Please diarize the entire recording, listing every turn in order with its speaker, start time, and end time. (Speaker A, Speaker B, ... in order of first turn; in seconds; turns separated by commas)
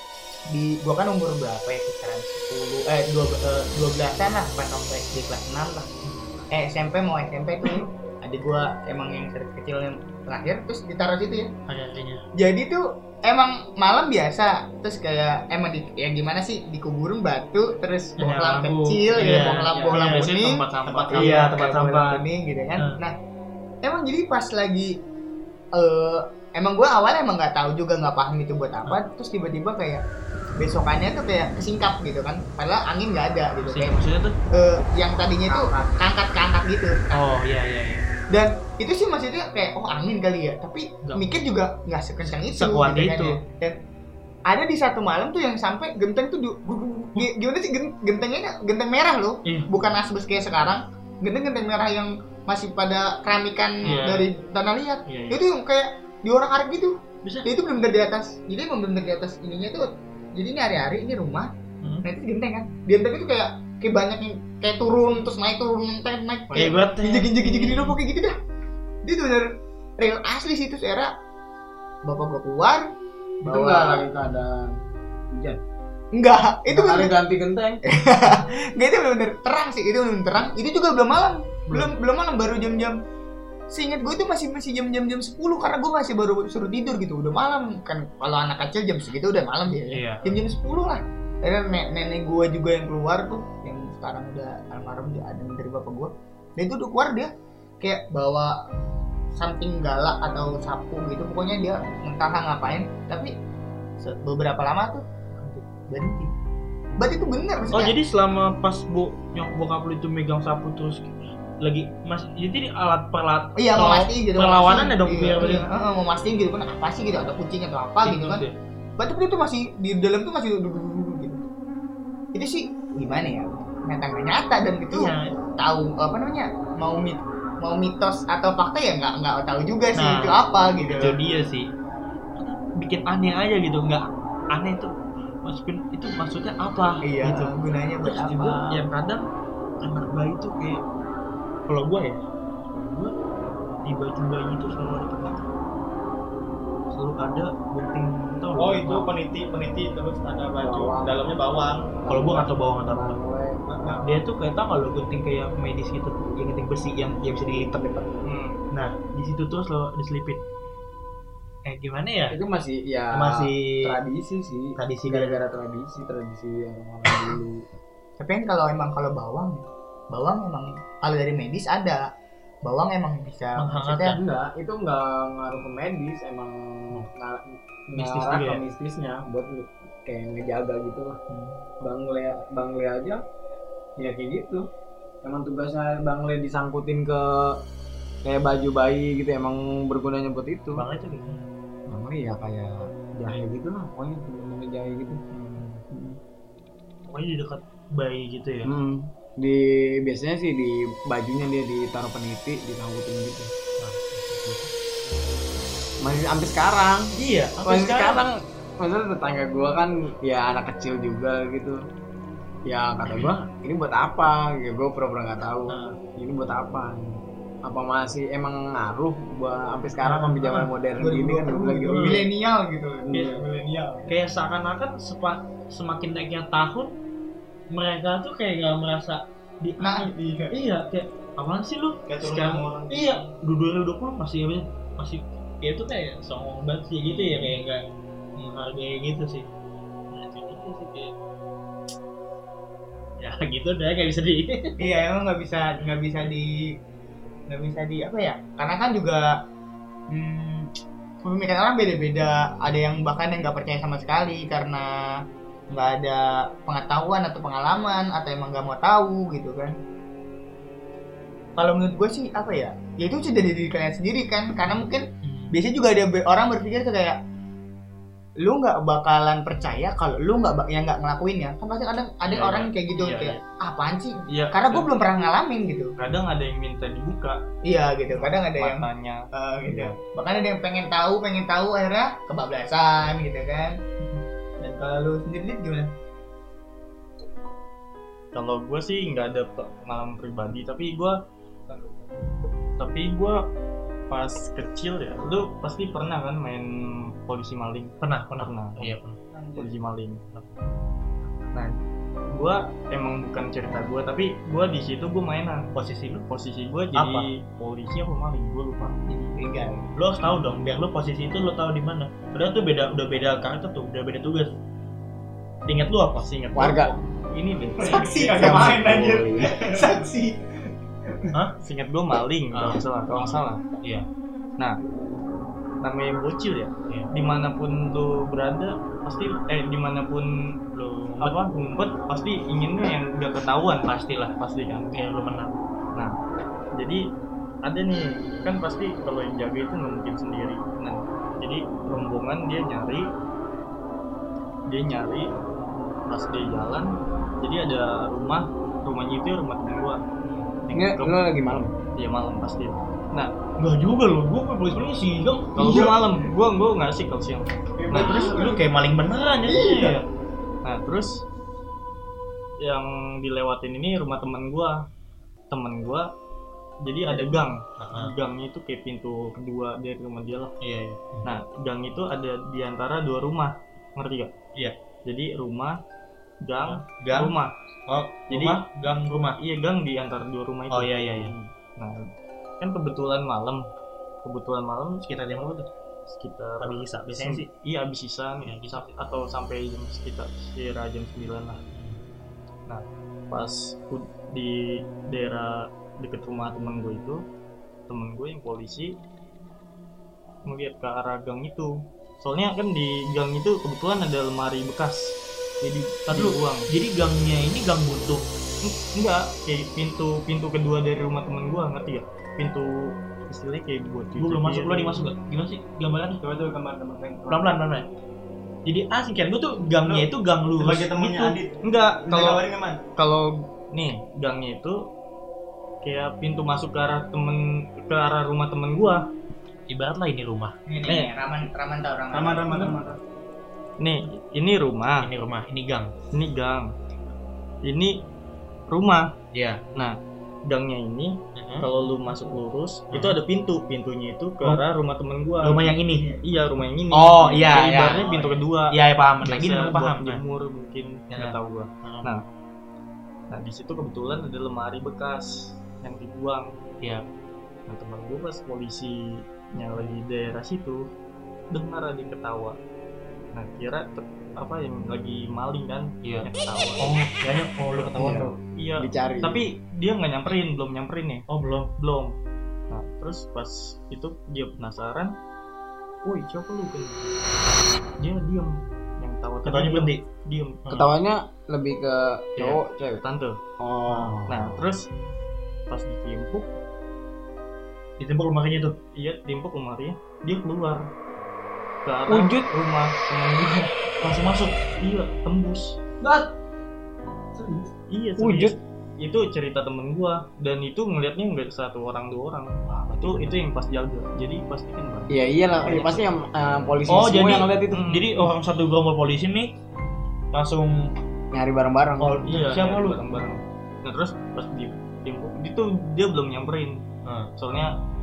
Speaker A: 0.5-5.9, Speaker B: 6.0-6.3, Speaker A: 6.5-11.5, Speaker B: 11.7-12.2, Speaker A: 12.3-23.2, Speaker B: 18.2-22.2, Speaker C: 19.1-20.0, Speaker D: 20.8-21.5, Speaker A: 23.8-24.9, Speaker A: 25.7-30.0, Speaker A: 30.6-34.0, Speaker B: 33.6-34.4, Speaker A: 34.5-37.2, Speaker B: 37.1-38.0, Speaker A: 38.3-43.8, Speaker B: 41.0-41.4, Speaker B: 42.3-43.4, Speaker A: 44.5-61.5, Speaker B: 53.8-54.1, Speaker C: 53.8-54.3, Speaker C: 55.0-55.4, Speaker A: 62.0-68.3, Speaker B: 66.5-68.0, Speaker A: 69.0-71.1, Speaker A: 72.0-72.9, Speaker A: 73.4-74.1, Speaker E: 73.4-74.7, Speaker E: 75.3-75.6, Speaker A: 76.1-77.2, Speaker E: 76.7-77.8, Speaker A: 77.8-83.0, Speaker A: 83.7-98.6, Speaker B: 89.9-90.2, Speaker A: 99.3-103.3, Speaker A: 104.0-105.0, Speaker A: 105.9-106.3, Speaker A: 107.0-107.9, Speaker B: 107.7-115.7, Speaker A: 113.6-118.4, Speaker B: 118.0-118.5, Speaker A: 119.0-121.5, Speaker A: 122.3-131.2, Speaker B: 124.9-125.3, Speaker B: 129.9-131.7, Speaker B: 132.4-139.2, Speaker A: 137.0-138.8, Speaker B: 139.8-140.8, Speaker B: 141.7-143.1, Speaker B: 143.8-145.5, Speaker B: 146.9-149.1, Speaker D: 148.5-151.9, Speaker E: 150.6-151.4, Speaker E: 152.0-154.0, Speaker B: 152.1-153.2, Speaker D: 153.7-154.2, Speaker B: 154.0-157.8, Speaker E: 157.3-158.2, Speaker C: 158.2-158.6, Speaker B: 158.7-160.4, Speaker B: 161.6-162.4, Speaker E: 162.3-167.6, Speaker B: 163.1-163.9, Speaker B: 164.8-165.5, Speaker A: 168.2-172.0, Speaker A: 172.6-174.2, Speaker B: 173.6-174.2, Speaker E: 174.1-181.2, Speaker B: 177.9-178.6, Speaker E: 181.8-183.2, Speaker E: 184.0-184.6, Speaker E: 185.2-187.6, Speaker E: 188.2-190.8, Speaker B: 190.7-191.5, Speaker E: 191.9-195.2, Speaker B: 195.6-195.8, Speaker E: 195.9-196.2, Speaker B: 197.0-198.7, Speaker E: 198.7-203.5, Speaker B: 203.8-204.7, Speaker E: 206.0-207.1, Speaker B: 207.1-208.2, Speaker E: 207.6-211.8, Speaker E: 212.6-222.3, Speaker B: 215.7-216.0, Speaker B: 220.0-220.7, Speaker A: 221.0-224.1, Speaker E: 223.1-223.4, Speaker B: 224.1-226.9, Speaker B: 227.7-237.8, Speaker A: 229.8-230.5, Speaker D: 232.1-233.2, Speaker B: 238.4-239.5, Speaker B: 240.1-241.1, Speaker B: 243.2-244.9, Speaker A: 244.8-246.6, Speaker A: 247.5-249.3, Speaker A: 250.1-250.7, Speaker A: 251.2-259.8, Speaker A: 261.6-267.2, Speaker B: 265.2-265.5, Speaker A: 268.4-275.9, Speaker C: 272.2-273.4, Speaker C: 274.3-274.9, Speaker C: 276.0-277.4, Speaker A: 277.6-283.8, Speaker C: 278.1-280.0, Speaker A: 284.6-285.9, Speaker C: 288.3-291.2, Speaker C: 292.8-293.4, Speaker C: 294.1-296.7, Speaker C: 297.2-298.9, Speaker B: 298.0-299.2, Speaker C: 299.6-300.2, Speaker C: 302.3-305.7, Speaker B: 305.7-306.2, Speaker C: 306.3-309.0, Speaker B: 306.9-307.3, Speaker A: 309.1-309.9, Speaker B: 309.9-314.5, Speaker B: 315.6-316.3, Speaker C: 316.2-318.2, Speaker E: 316.5-316.9, Speaker A: 317.8-320.4, Speaker D: 318.0-319.9, Speaker E: 318.3-319.6, Speaker C: 321.6-323.6, Speaker B: 322.5-324.1, Speaker C: 325.8-330.3, Speaker B: 330.7-331.4, Speaker C: 331.2-335.0, Speaker B: 333.8-334.4, Speaker B: 334.9-335.6, Speaker C: 336.7-337.0, Speaker C: 337.6-343.1, Speaker C: 344.7-345.3, Speaker C: 346.1-350.0, Speaker B: 350.2-350.5, Speaker C: 350.6-353.3, Speaker E: 350.7-351.7, Speaker B: 353.6-355.9, Speaker C: 355.5-358.4, Speaker D: 357.9-358.6, Speaker B: 357.9-360.0, Speaker A: 359.5-360.0, Speaker D: 359.7-359.9, Speaker C: 360.6-361.2, Speaker C: 362.6-364.8, Speaker C: 365.5-366.1, Speaker C: 366.8-370.5, Speaker B: 367.8-368.1, Speaker B: 370.6-371.3, Speaker C: 371.2-374.3, Speaker C: 375.0-375.8, Speaker C: 376.4-377.5, Speaker B: 376.6-377.4, Speaker B: 377.9-379.4, Speaker C: 378.3-378.6, Speaker C: 379.4-383.6, Speaker B: 380.7-381.3, Speaker C: 384.2-385.1, Speaker B: 385.0-385.7, Speaker C: 386.1-391.6, Speaker B: 386.6-387.5, Speaker B: 388.4-388.9, Speaker B: 391.7-392.0, Speaker C: 392.7-397.2, Speaker C: 397.9-398.9, Speaker C: 400.4-406.7, Speaker B: 406.1-408.3, Speaker C: 408.6-415.1, Speaker B: 414.2-416.2, Speaker D: 416.2-417.5, Speaker B: 417.3-417.9, Speaker B: 418.6-421.4, Speaker D: 419.8-422.8, Speaker C: 421.6-422.4, Speaker C: 423.0-424.8, Speaker C: 425.8-429.0, Speaker B: 429.7-430.6, Speaker A: 430.7-432.5, Speaker C: 430.8-431.1, Speaker D: 432.1-433.0, Speaker C: 433.8-435.1, Speaker B: 435.0-435.9, Speaker C: 436.1-436.7, Speaker C: 437.6-438.0, Speaker C: 438.7-439.1, Speaker B: 439.3-439.6, Speaker C: 439.7-452.2, Speaker B: 441.4-441.6, Speaker B: 442.9-443.2, Speaker B: 445.4-446.1, Speaker B: 446.9-450.2, Speaker B: 451.1-452.1, Speaker C: 453.3-456.5, Speaker C: 457.7-460.8, Speaker C: 461.5-462.6, Speaker C: 463.3-466.9, Speaker B: 466.0-468.4, Speaker E: 467.9-469.4, Speaker C: 468.6-471.2, Speaker B: 471.3-471.7, Speaker C: 471.8-472.1, Speaker C: 472.7-475.1, Speaker C: 476.0-477.2, Speaker C: 478.0-480.7, Speaker B: 479.4-480.0, Speaker E: 480.7-483.0, Speaker C: 482.4-483.4, Speaker E: 483.6-484.6, Speaker C: 484.2-484.9, Speaker C: 485.7-486.5, Speaker B: 488.0-488.8, Speaker C: 488.9-490.9, Speaker C: 491.8-493.9, Speaker B: 494.0-494.7, Speaker C: 494.7-495.8, Speaker C: 497.9-506.1, Speaker E: 498.2-498.5, Speaker B: 502.6-503.4, Speaker E: 505.1-507.8, Speaker B: 506.9-509.5, Speaker C: 507.7-508.3, Speaker B: 510.3-510.9, Speaker E: 511.3-512.2, Speaker B: 512.0-513.2, Speaker C: 512.2-516.8, Speaker B: 517.0-517.7, Speaker C: 517.4-517.8